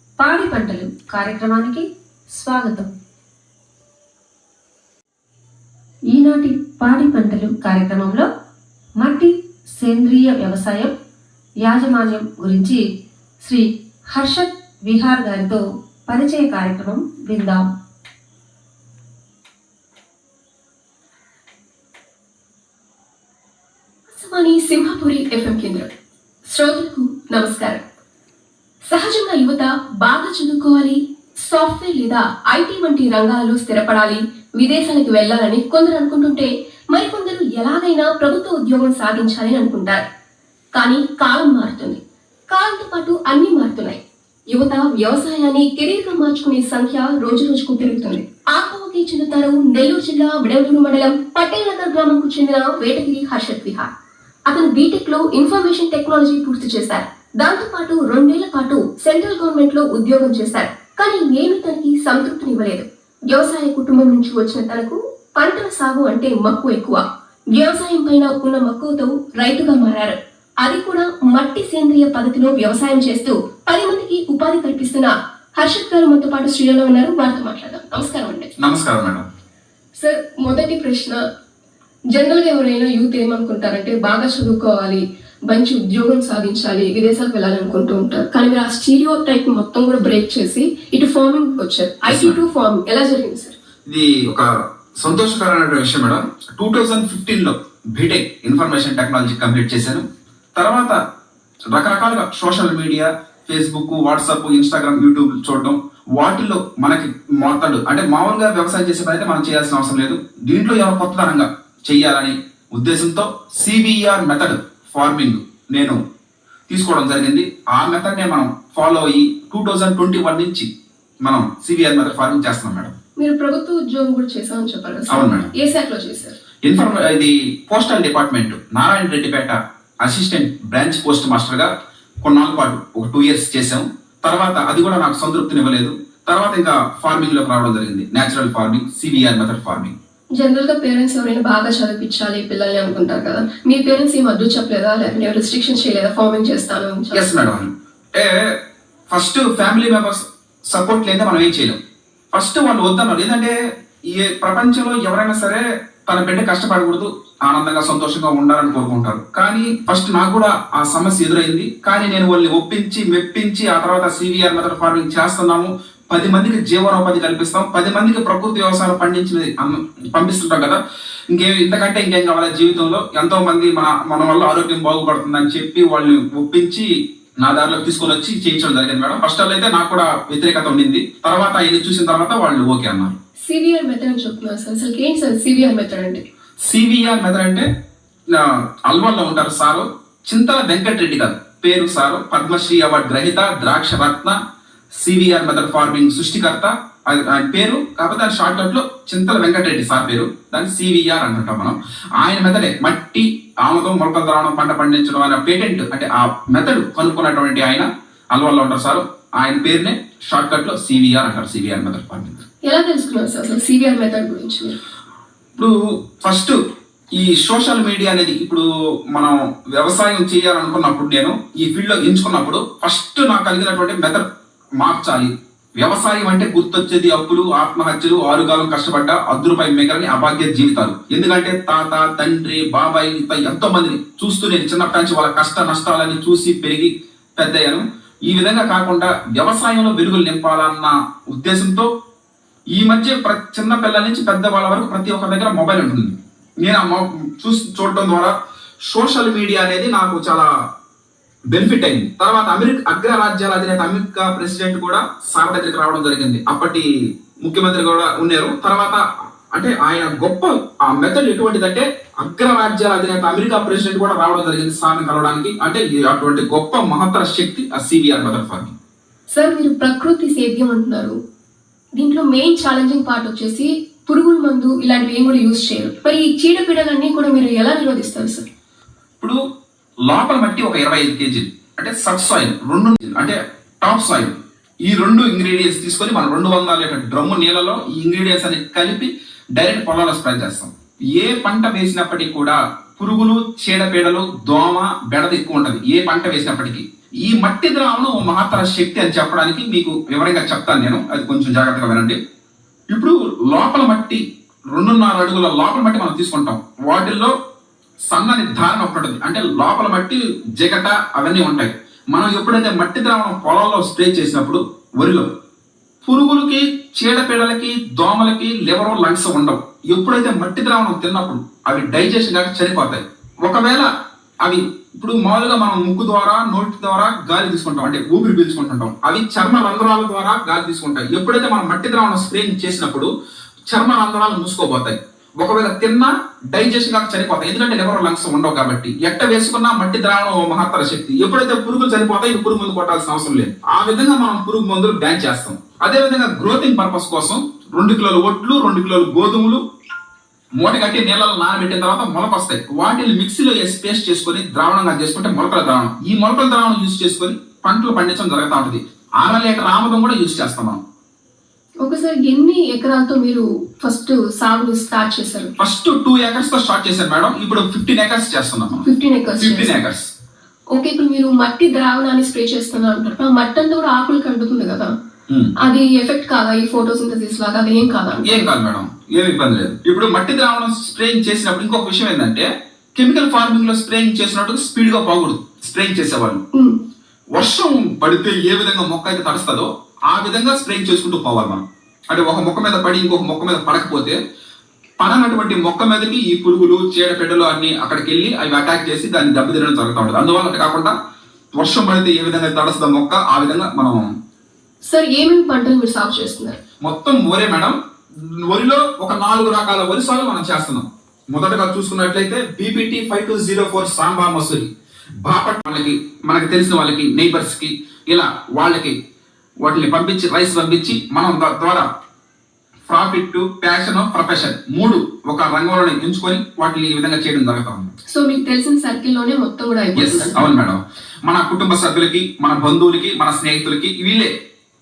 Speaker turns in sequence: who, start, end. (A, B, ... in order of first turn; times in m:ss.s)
0:00.2-0:02.9 A
0:06.1-0:08.3 A
0:09.0-0:10.9 A
0:11.6-0:12.8 A
0:13.4-0:17.7 A
0:24.1-0:25.9 B
0:26.5-0:27.8 B
0:28.8-0:40.0 B
0:40.7-0:53.9 B
0:54.5-1:07.0 B
1:07.5-1:18.5 B
1:18.6-1:19.2 C
1:20.0-1:21.2 B
1:22.1-1:33.5 B
1:32.0-1:32.4 C
1:33.8-1:34.4 C
1:35.0-1:40.0 C
1:40.6-1:41.0 C
1:41.7-1:56.0 C
1:56.7-2:00.7 C
2:01.2-2:02.9 C
2:03.2-2:06.4 B
2:05.1-2:05.5 C
2:06.6-2:11.7 C
2:12.2-2:19.9 C
2:20.4-2:27.3 B
2:27.1-2:28.6 C
2:29.1-2:31.8 C
2:32.3-2:33.5 C
2:34.1-2:50.8 C
2:51.3-2:56.8 C
2:57.4-3:03.1 C
3:03.4-3:06.2 B
3:06.6-3:07.6 C
3:08.3-3:14.4 C
3:15.0-3:32.4 C
3:32.6-3:34.8 B
3:35.6-3:36.5 C
3:37.2-3:44.2 C
3:44.8-4:01.9 C
4:02.7-4:08.3 C
4:08.9-4:10.5 C
4:11.5-4:16.8 C
4:17.4-4:19.0 C
4:19.5-4:28.7 C
4:29.3-4:31.2 B
4:32.0-4:38.4 B
4:40.1-5:02.2 C
5:02.9-5:04.2 C
5:04.7-5:07.3 C
5:08.1-5:15.3 C
5:16.0-5:23.9 C
5:24.4-5:33.1 C
5:33.7-5:49.6 C
5:50.6-6:00.8 C
6:01.8-6:05.5 B
6:05.6-6:08.8 C
6:08.8-6:09.8 B
6:09.4-6:10.1 C
6:10.7-6:14.9 B
6:15.6-6:18.5 B
6:18.2-6:26.4 C
6:27.3-6:34.1 C
6:35.0-6:40.9 C
6:41.6-6:44.0 C
6:44.8-6:46.6 B
6:46.8-6:47.7 C
6:48.2-6:54.7 C
6:55.2-6:58.9 C
6:59.6-7:01.8 C
7:02.9-7:07.9 C
7:08.1-7:10.5 B
7:10.0-7:14.3 C